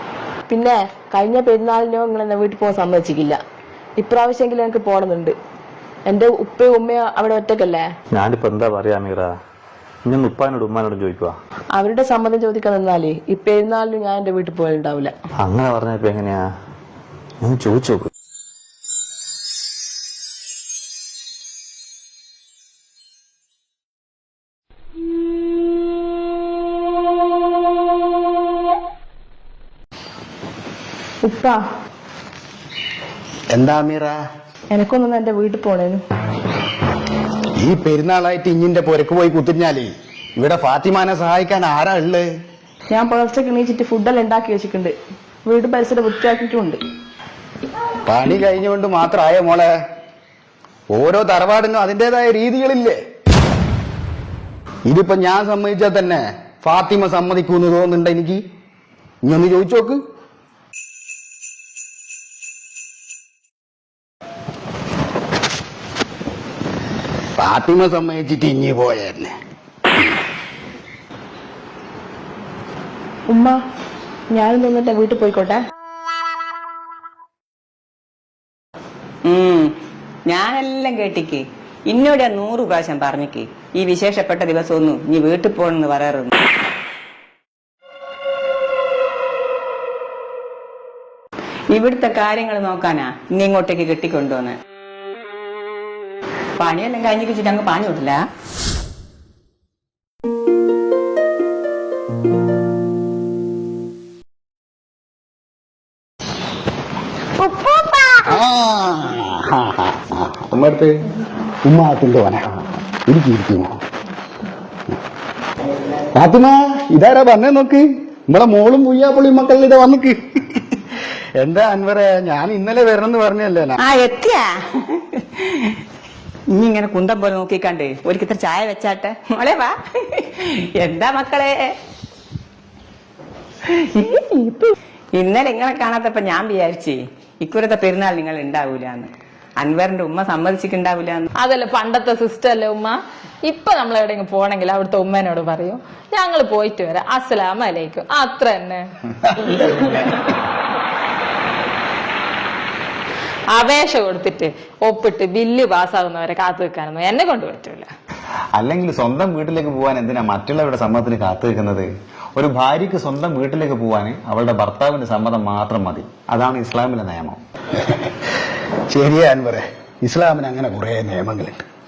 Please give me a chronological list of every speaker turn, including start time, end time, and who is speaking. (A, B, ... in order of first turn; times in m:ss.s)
0:00.5-0:03.4 A
0:04.0-0:05.3 A
0:06.1-0:07.8 A
0:08.1-0:09.4 B
0:10.0-0:11.4 B
0:11.7-0:15.1 A
0:15.4-0:16.5 B
0:17.4-0:18.1 B
0:31.2-0:31.6 A
0:33.5-0:34.1 C
0:34.7-0:36.0 A
0:37.6-0:42.3 C
0:42.9-0:44.9 A
0:45.4-0:46.8 A
0:48.0-0:49.7 C
0:50.9-0:53.0 C
0:54.9-0:58.4 C
0:59.2-1:00.0 C
1:07.4-1:09.3 C
1:13.3-1:13.6 A
1:14.3-1:15.6 A
1:19.3-1:19.7 D
1:20.3-1:26.3 D
1:31.7-1:34.6 D
1:36.6-1:38.2 D
1:48.2-1:50.9 C
1:51.6-1:53.8 C
1:56.2-2:03.8 C
2:03.8-2:05.8 D
2:06.5-2:11.7 D
2:13.7-2:21.3 D
2:21.4-2:28.8 E
2:29.6-2:30.1 E
2:33.5-2:37.9 E
2:38.6-2:47.4 F
2:47.8-2:48.1 C
2:48.9-2:51.6 C